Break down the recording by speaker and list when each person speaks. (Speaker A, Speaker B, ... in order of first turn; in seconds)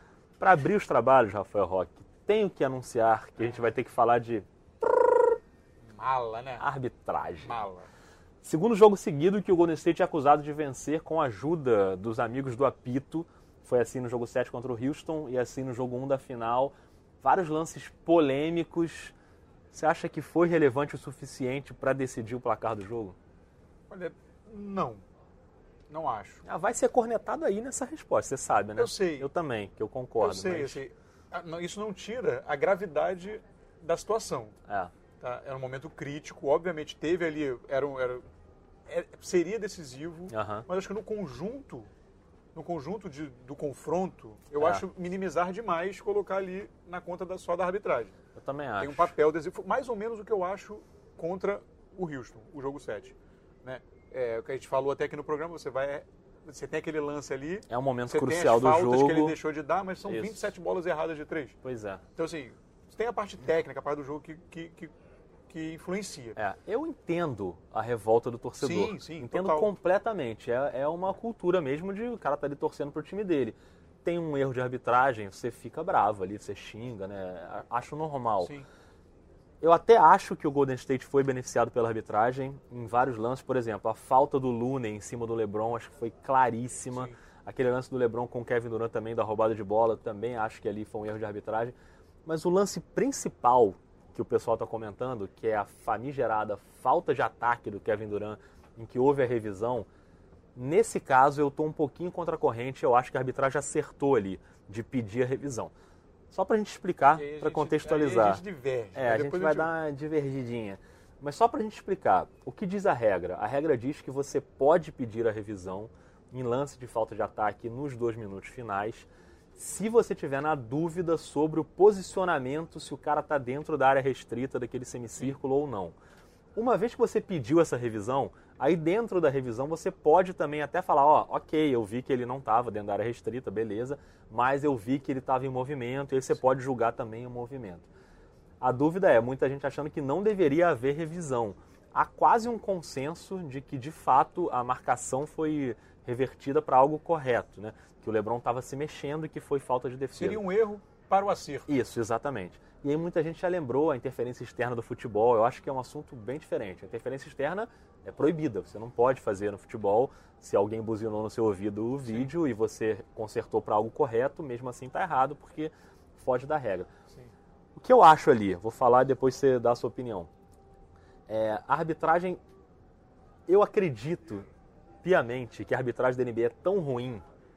Speaker A: 0.4-4.5, 6.6-7.6, 8.4-19.1, 19.7-23.2, 26.4-30.8, 34.7-34.9, 40.3-40.7, 44.6-44.8, 48.4-49.1, 57.7-59.4, 60.1-60.5, 61.6-62.0, 66.4-78.5, 79.6-91.8, 92.3-99.9, 100.5-105.7, 106.3-108.4, 109.0-126.0, 126.5-137.9, 138.6-150.4, 151.7-166.9, 167.8-170.3, 171.3-172.4, 173.5-174.4, 175.0-177.2
Speaker B: 5.9-6.7, 7.4-7.9, 23.9-25.0, 25.9-26.4, 28.8-29.3, 30.2-34.5, 35.2-38.2, 38.9-41.9, 42.5-48.1, 48.8-61.6, 62.2-64.9, 65.5-66.4, 68.6-69.7, 78.4-78.7, 86.9-87.2, 107.1-109.7, 150.1-151.7, 162.1-162.3